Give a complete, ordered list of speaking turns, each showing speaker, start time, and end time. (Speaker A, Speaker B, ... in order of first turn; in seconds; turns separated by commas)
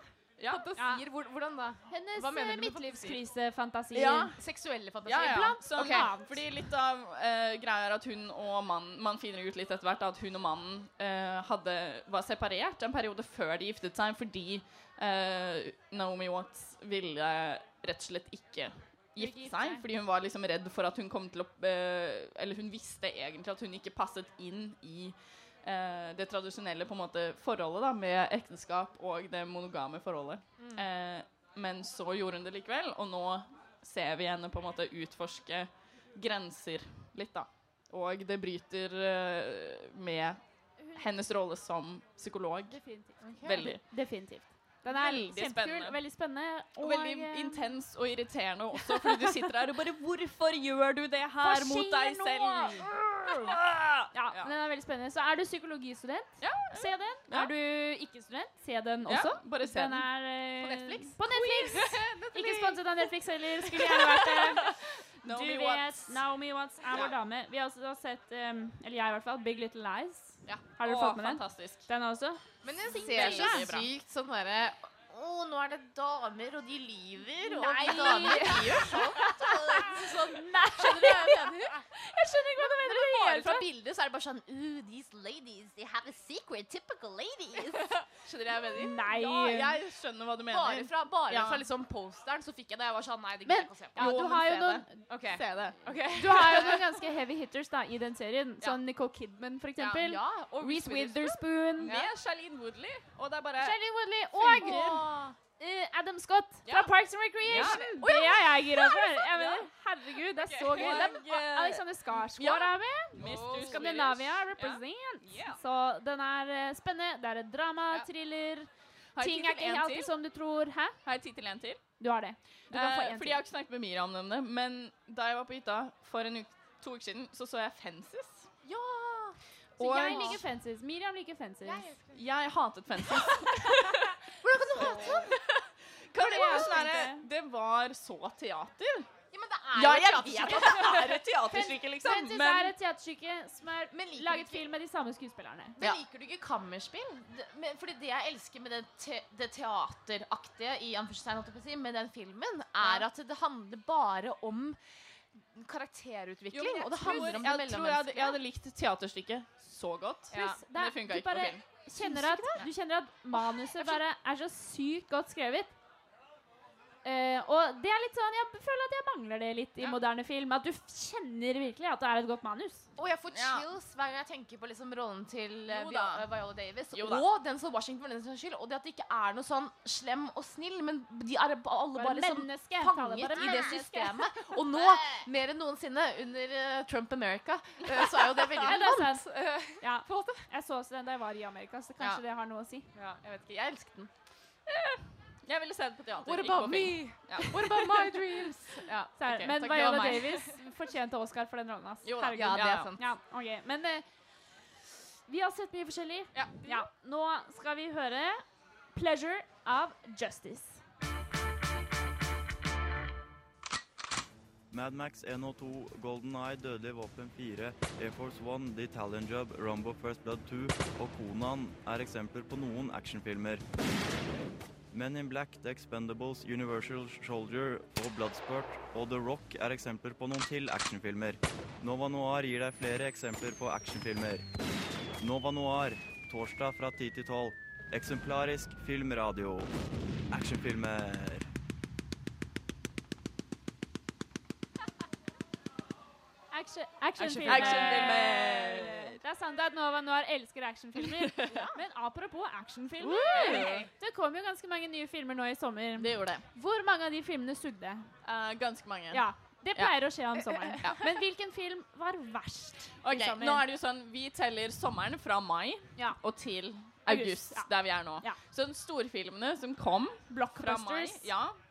Speaker A: 0.4-0.7, Speaker B: 0.5-3.2, Speaker C: 0.8-1.0, Speaker C: 1.9-4.3, Speaker A: 3.9-4.4, Speaker B: 4.4-6.0, Speaker A: 5.0-43.8, Speaker C: 5.2-6.4, Speaker C: 19.2-19.8, Speaker B: 30.6-30.8, Speaker C: 42.7-47.7, Speaker B: 43.2-43.7, Speaker A: 44.9-46.0, Speaker A: 46.8-54.5, Speaker C: 48.8-49.4, Speaker C: 51.4-53.5, Speaker C: 54.1-73.7, Speaker A: 56.4-57.5, Speaker A: 59.0-60.1, Speaker B: 60.6-62.8, Speaker B: 63.8-64.2, Speaker A: 64.4-66.2, Speaker A: 70.5-71.8, Speaker B: 72.6-81.8, Speaker A: 72.9-73.9, Speaker C: 77.4-83.7, Speaker B: 82.6-89.0, Speaker C: 88.8-89.8, Speaker A: 89.1-91.7, Speaker B: 90.5-94.2, Speaker A: 93.5-95.9, Speaker C: 93.5-95.0, Speaker B: 95.1-96.8, Speaker C: 96.2-101.9, Speaker B: 99.8-102.1, Speaker A: 101.8-103.8, Speaker C: 103.6-121.0, Speaker B: 104.3-105.3, Speaker A: 104.5-105.1, Speaker A: 107.5-107.8, Speaker B: 107.5-108.8, Speaker A: 109.2-109.7, Speaker A: 110.5-115.6, Speaker B: 110.7-111.1, Speaker B: 113.2-113.9, Speaker A: 119.2-120.1, Speaker A: 121.0-121.8, Speaker C: 122.0-123.4, Speaker A: 122.7-128.5, Speaker B: 128.6-129.4, Speaker A: 129.8-130.4, Speaker C: 129.8-131.9, Speaker B: 130.0-130.4, Speaker B: 131.6-132.2, Speaker A: 132.1-134.2, Speaker B: 134.4-135.3, Speaker A: 134.7-135.6, Speaker A: 136.1-139.1, Speaker C: 136.1-137.2, Speaker B: 136.4-136.6, Speaker B: 139.3-141.2, Speaker A: 139.7-142.7, Speaker C: 140.5-145.9, Speaker B: 143.9-144.6, Speaker B: 145.8-154.8, Speaker B: 155.4-158.4, Speaker A: 156.5-161.6, Speaker B: 160.3-160.6, Speaker C: 160.3-165.7, Speaker B: 161.9-162.7, Speaker B: 163.3-164.0, Speaker C: 167.0-172.9, Speaker B: 173.0-190.5, Speaker A: 173.3-173.7, Speaker A: 175.7-176.2, Speaker A: 176.9-177.2, Speaker C: 181.9-184.3, Speaker A: 183.4-183.7, Speaker A: 184.7-185.2, Speaker A: 187.9-188.8, Speaker C: 188.6-189.3, Speaker C: 189.8-192.9, Speaker B: 192.9-194.1, Speaker A: 194.7-198.1, Speaker B: 196.2-200.6, Speaker C: 199.2-204.1, Speaker A: 202.0-202.9, Speaker B: 202.3-203.0, Speaker C: 205.3-210.8, Speaker A: 206.3-206.8, Speaker D: 214.7-223.6, Speaker D: 224.9-234.4, Speaker D: 235.2-239.7, Speaker D: 240.3-241.5, Speaker C: 246.5-258.1, Speaker A: 247.2-249.2, Speaker B: 247.3-247.9, Speaker B: 251.4-251.8, Speaker A: 253.0-253.9, Speaker B: 253.5-253.8, Speaker A: 256.0-256.4, Speaker A: 258.2-259.9, Speaker C: 259.1-263.6, Speaker A: 260.8-261.0, Speaker A: 263.0-271.6, Speaker C: 267.1-268.4, Speaker C: 270.3-271.3